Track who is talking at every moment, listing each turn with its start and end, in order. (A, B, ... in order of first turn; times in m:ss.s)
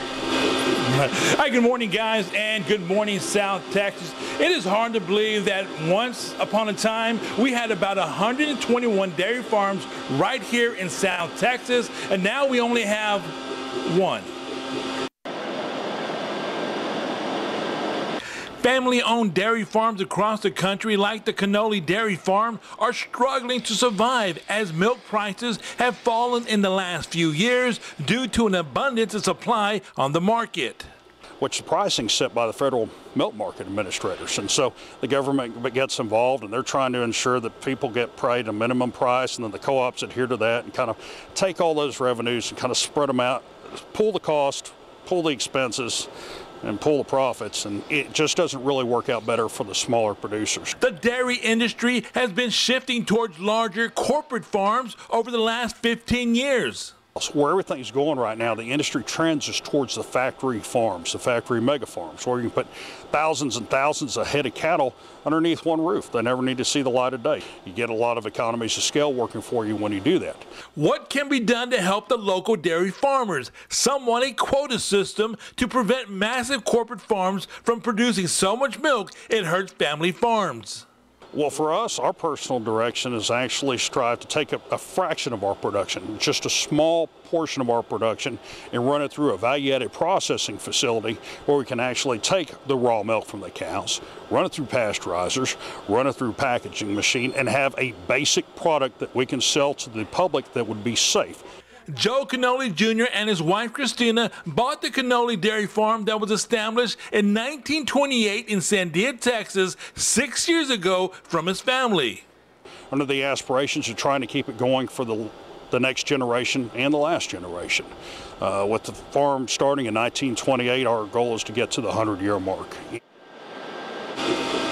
0:00.8-0:14.3 A
0:18.6-0:30.9 A
0:31.4-0:46.1 B
0:46.6-0:50.8 B
0:50.8-0:56.9 A
0:57.2-1:10.5 B
1:10.8-1:20.8 A
1:21.3-1:41.4 B
1:41.9-1:52.2 A
1:52.9-2:03.0 B